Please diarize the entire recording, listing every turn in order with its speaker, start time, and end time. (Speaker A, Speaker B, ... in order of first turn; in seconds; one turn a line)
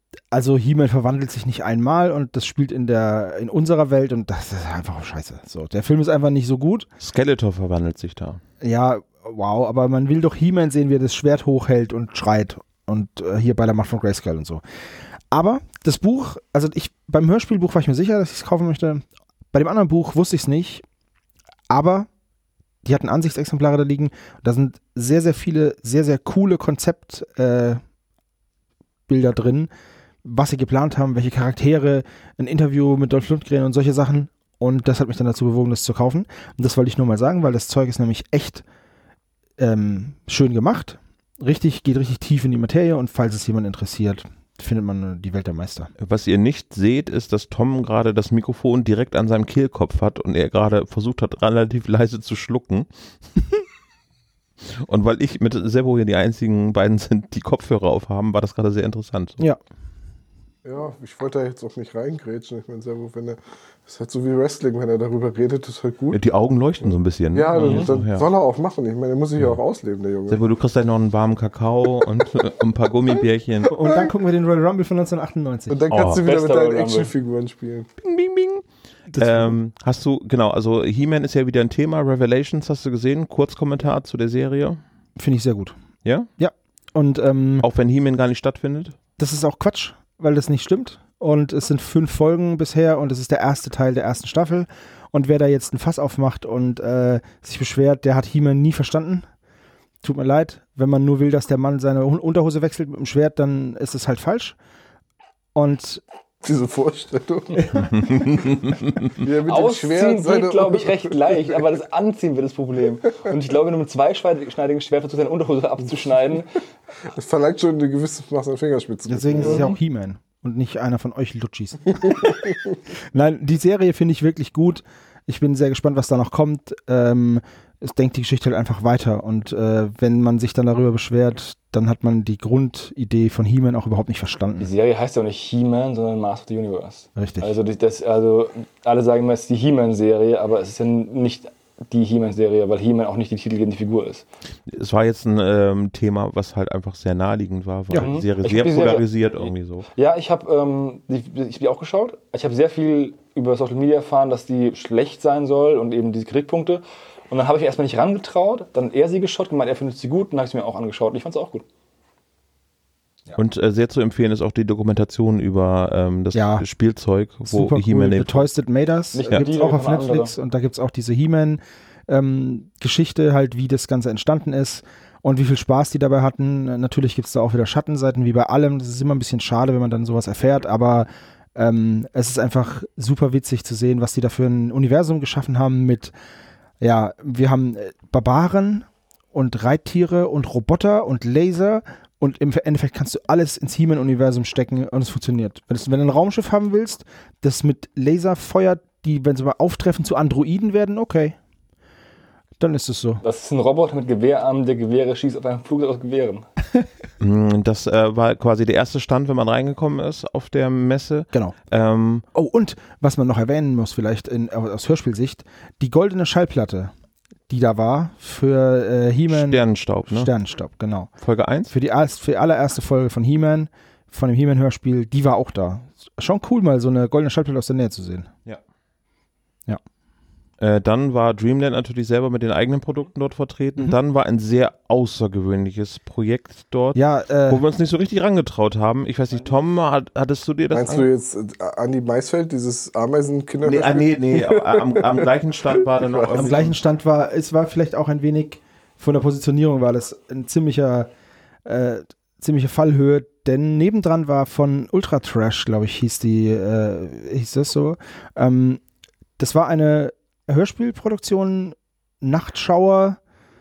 Speaker A: 0.3-6.9
Speaker B: 7.0-8.4
Speaker A: 8.6-14.6
Speaker A: 15.3-20.8
Speaker A: 21.7-22.1
Speaker A: 22.8-27.8
Speaker A: 29.1-29.7
Speaker A: 30.2-38.6
Speaker A: 39.6-45.9
Speaker B: 46.0-52.9
Speaker B: 54.9-59.4
Speaker C: 60.6-66.2
Speaker B: 66.1-68.3
Speaker C: 66.8-70.4
Speaker D: 67.6-67.9
Speaker B: 70.3-73.8
Speaker A: 73.7-75.8
Speaker C: 75.7-77.9
Speaker B: 75.9-76.2
Speaker D: 76.2-77.1
Speaker B: 78.0-78.7
Speaker A: 79.1-79.6
Speaker B: 79.2-84.8
Speaker A: 85.2-85.8
Speaker A: 86.4-87.7
Speaker B: 87.6-89.0
Speaker A: 89.2-99.3
Speaker A: 100.0-104.6
Speaker A: 105.5-106.0
Speaker C: 106.4-108.1
Speaker B: 107.9-108.9
Speaker C: 109.2-111.6
Speaker D: 109.5-116.5
Speaker C: 117.1-119.7
Speaker A: 119.1-122.3
Speaker D: 119.4-119.7
Speaker A: 123.1-134.7
Speaker D: 134.6-144.2
Speaker A: 137.2-137.5
Speaker B: 144.7-149.9
Speaker D: 148.0-161.7
Speaker B: 163.4-168.5
Speaker A: 166.3-166.7
Speaker A: 167.4-186.1
Speaker D: 169.1-170.3
Speaker A: 186.8-201.4
Speaker A: 202.6-203.2
Speaker D: 203.2-206.5
Speaker B: 207.2-212.2
Speaker A: 212.3-216.9
Speaker A: 217.5-221.1
Speaker B: 219.3-220.3
Speaker B: 221.2-221.7
Speaker A: 221.7-228.3
Speaker B: 230.6-241.1
Speaker A: 236.9-237.6
Speaker C: 240.7-246.6
Speaker B: 243.6-246.7
Speaker A: 246.3-251.1
Speaker A: 251.7-258.8
Speaker A: 259.4-263.2